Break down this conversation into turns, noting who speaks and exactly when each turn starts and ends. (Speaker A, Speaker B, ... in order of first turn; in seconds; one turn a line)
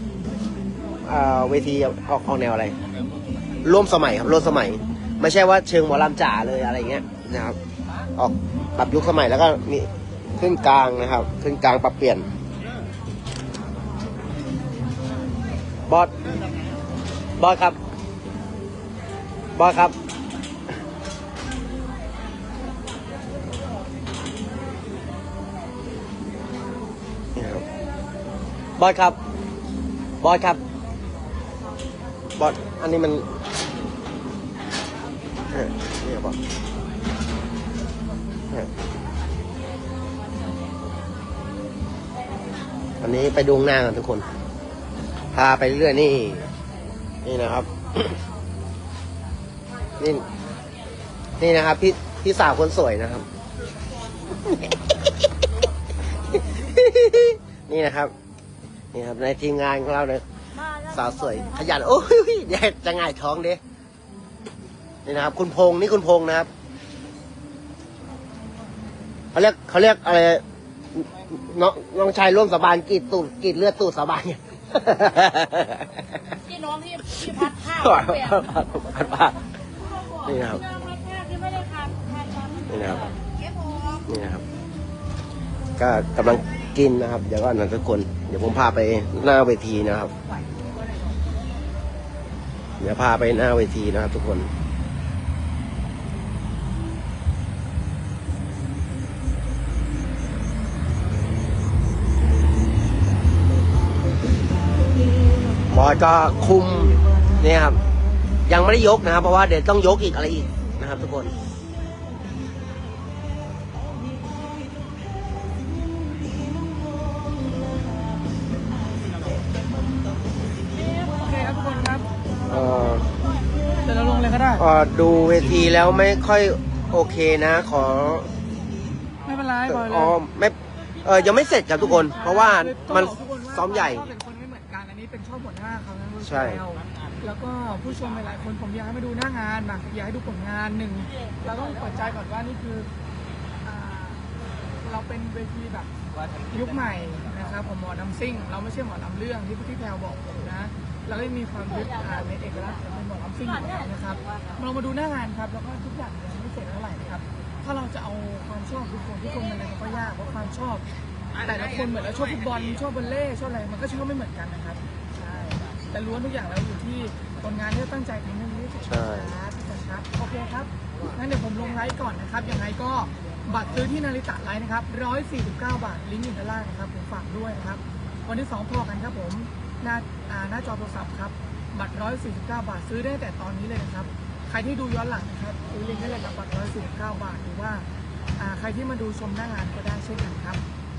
Speaker A: 1.1-2.8
Speaker A: 3.6-7.6
Speaker A: 8.2-12.3
Speaker A: 17.4-17.8
Speaker A: 19.6-19.9
Speaker A: 27.4-27.6
Speaker A: 28.8-29.2
Speaker A: 30.2-30.6
Speaker A: 32.4-33.2
Speaker A: 35.5-36.4
Speaker A: 43.0-44.2
Speaker A: 45.3-46.5
Speaker A: 47.2-48.2
Speaker A: 50.0-50.2
Speaker A: 51.4-53.2
Speaker A: 54.4-55.0
Speaker A: 56.3-58.1
Speaker A: 58.9-60.2
Speaker B: 60.6-61.7
Speaker A: 60.9-63.6
Speaker A: 65.0-66.5
Speaker A: 69.3-70.4
Speaker A: 70.9-76.2
Speaker B: 76.4-78.4
Speaker A: 77.1-79.4
Speaker B: 80.2-83.0
Speaker A: 80.2-80.6
Speaker A: 82.7-83.1
Speaker A: 84.1-84.4
Speaker A: 85.8-90.1
Speaker A: 92.8-94.5
Speaker A: 105.7-107.8
Speaker A: 108.5-111.3
Speaker C: 121.0-122.0
Speaker A: 122.5-123.0
Speaker C: 123.8-124.6
Speaker A: 124.6-128.3
Speaker C: 129.2-130.2
Speaker A: 129.7-134.1
Speaker C: 131.8-142.9
Speaker A: 136.2-136.6
Speaker C: 143.6-144.2
Speaker C: 144.8-145.9
Speaker C: 146.4-160.8
Speaker C: 161.4-164.8
Speaker C: 165.4-187.8
Speaker A: 168.8-169.3
Speaker C: 188.4-190.6